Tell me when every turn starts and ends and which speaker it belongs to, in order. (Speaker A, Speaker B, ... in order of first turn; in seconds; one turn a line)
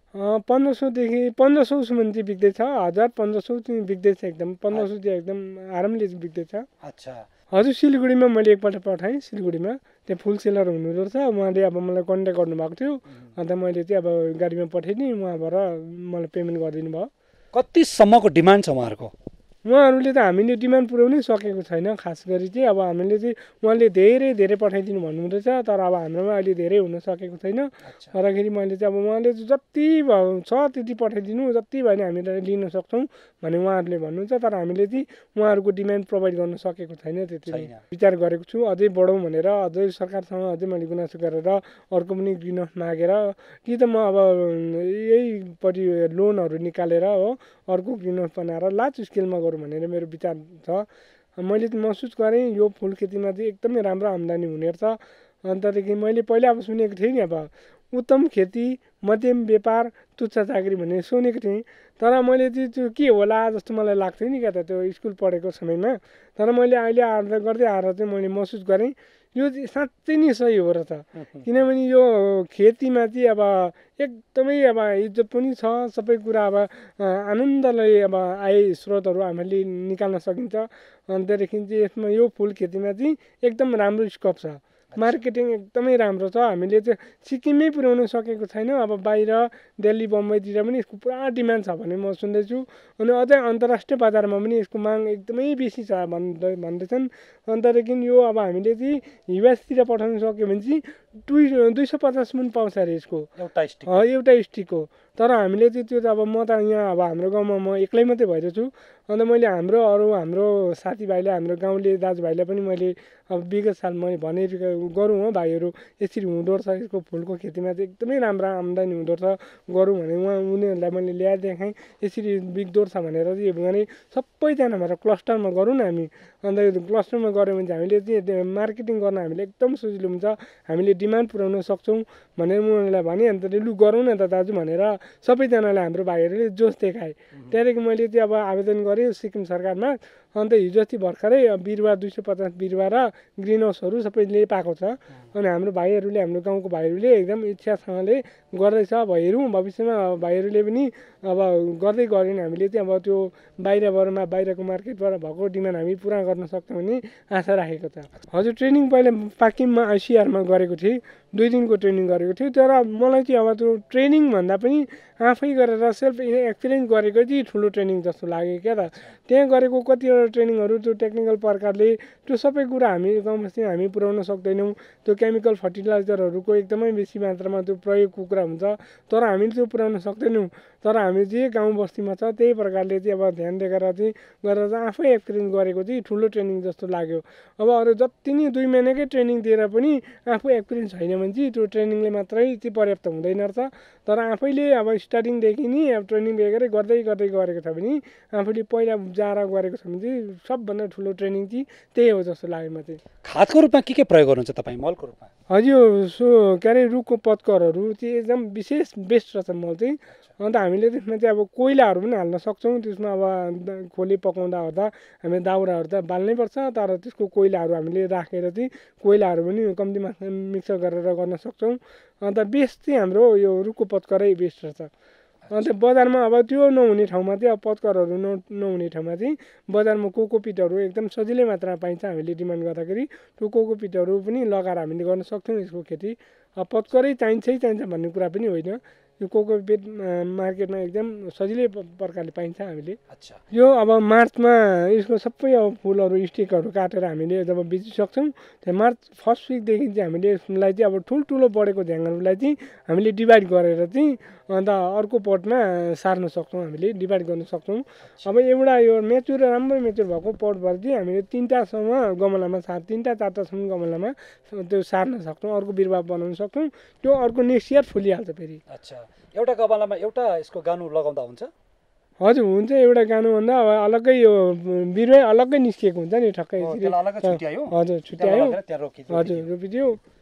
Speaker A: 0.1-6.7
Speaker B: 6.8-7.3
Speaker A: 7.5-17.1
Speaker B: 17.5-19.1
Speaker A: 19.6-103.3
Speaker B: 27.9-28.1
Speaker B: 37.5-37.8
Speaker B: 71.2-71.5
Speaker B: 84.9-85.2
Speaker B: 103.3-104.1
Speaker A: 103.9-203.0
Speaker B: 203.2-205.3
Speaker A: 205.5-224.9
Speaker A: 225.5-243.0
Speaker B: 243.1-243.4
Speaker A: 243.5-268.6
Speaker B: 268.7-271.5
Speaker A: 272.2-278.6
Speaker B: 276.6-279.5
Speaker A: 279.1-280.0